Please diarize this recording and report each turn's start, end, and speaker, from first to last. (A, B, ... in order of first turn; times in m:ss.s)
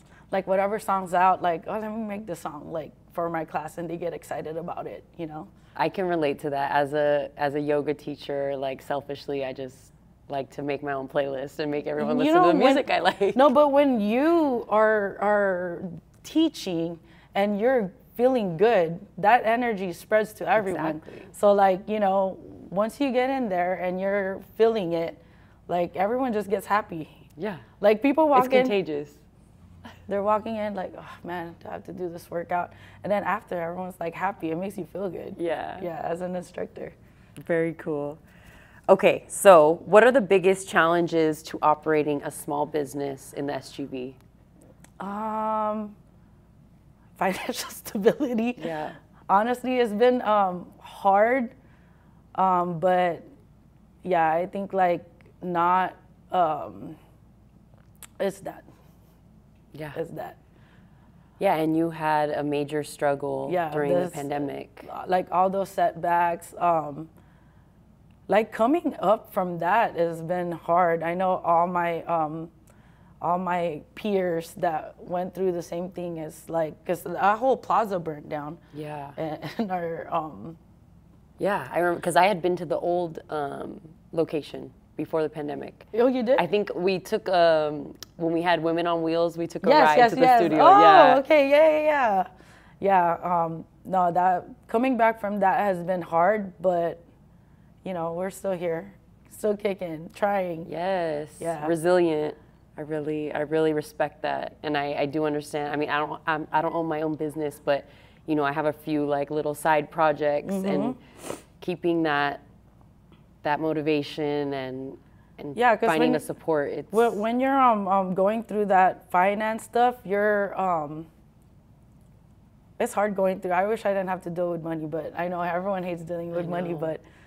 0:00.3-0:05.5 A
0:05.8-0:13.4 B
0:12.0-0:27.1 A
0:20.6-0:21.3 B
0:27.4-0:27.6 B
0:27.8-0:28.8 A
0:28.3-0:29.2 B
0:30.1-0:37.0 A
0:35.4-0:35.9 B
0:37.4-0:38.2 B
0:38.9-0:44.2 B
0:45.0-0:46.0 A
0:47.2-0:48.7 A
0:48.6-0:49.0 B
0:49.3-0:51.5 A
0:52.4-0:53.2 A
0:54.0-0:57.0 A
0:58.2-0:58.6 A
0:59.7-1:00.0 B
0:59.9-1:00.4 A
1:01.4-1:04.9 B
1:03.5-1:07.1 A
1:08.3-1:12.5 A
1:13.2-1:18.6 A
1:18.7-1:19.2 B
1:19.2-1:20.6 A
1:21.4-1:31.2 B
1:25.9-1:26.4 A
1:29.6-1:32.3 A
1:32.8-1:37.0 A
1:37.8-1:40.7 A
1:40.7-1:51.0 B
1:41.4-1:41.7 A
1:50.4-1:51.0 A
1:51.6-1:52.4 B
1:53.4-1:57.2 B
1:55.6-1:56.2 A
1:56.9-2:01.1 A
2:02.8-2:07.0 A
2:06.3-2:06.9 B